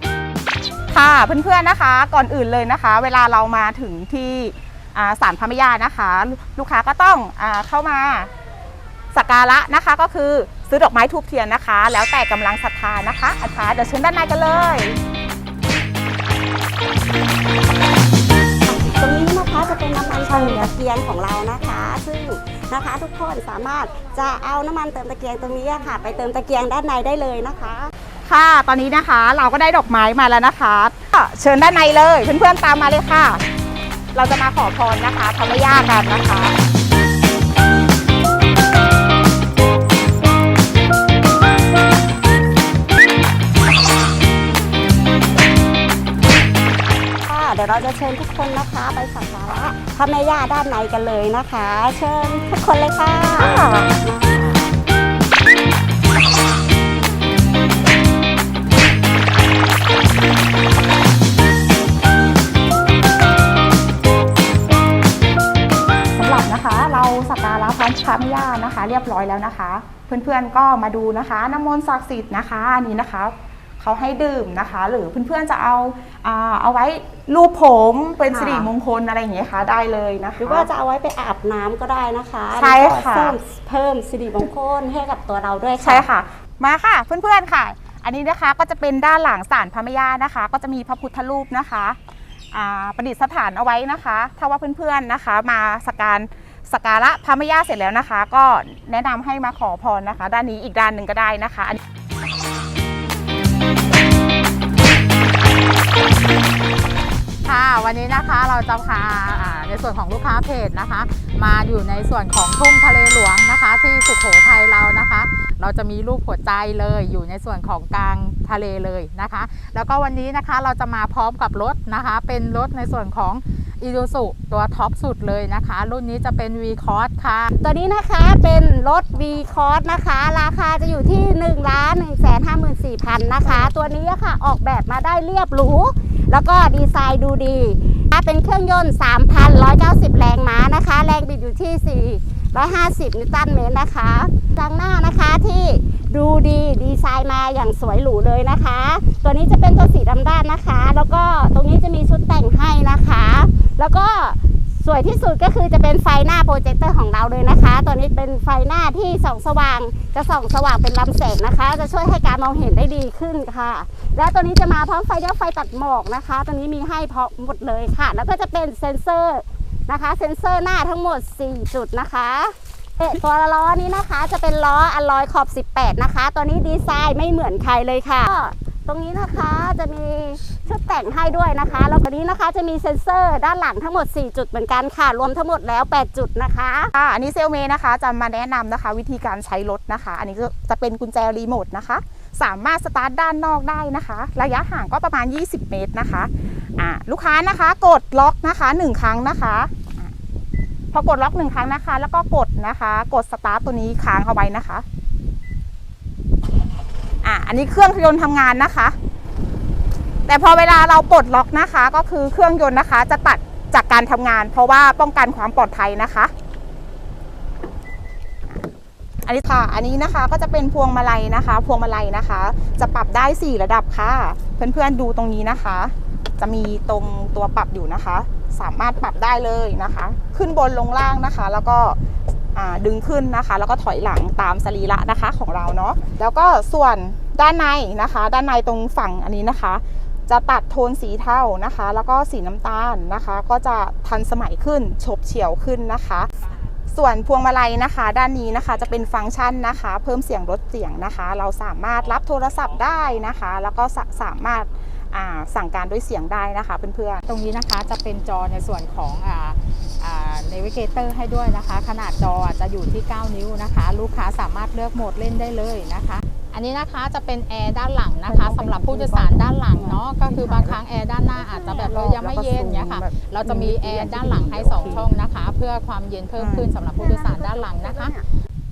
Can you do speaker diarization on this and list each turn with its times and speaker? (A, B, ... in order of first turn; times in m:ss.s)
0:00.9-0:08.3 A
0:09.1-0:15.0 A
0:18.7-0:27.9 B
0:20.2-0:20.7 A
0:28.2-0:33.4 A
0:34.1-0:36.6 A
0:47.3-0:54.7 B
0:53.4-0:53.9 A
1:06.2-1:20.7 A
1:18.3-1:18.7 B
1:20.4-1:26.1 B
1:22.5-1:23.4 A
1:25.8-1:32.0 A
1:32.5-1:41.8 A
1:47.4-2:07.5 C
2:07.6-3:06.9 B
2:13.5-2:13.8 A
3:07.0-3:20.1 A
3:20.9-3:24.8 A
3:27.2-3:29.0 A
3:30.3-3:36.3 A
3:39.2-3:52.0 A
3:52.5-4:06.3 A
4:06.9-4:17.2 A
4:17.3-4:38.1 C
4:28.3-4:30.8 A
4:31.3-4:35.2 A
4:36.4-4:36.7 A
4:37.0-4:38.2 B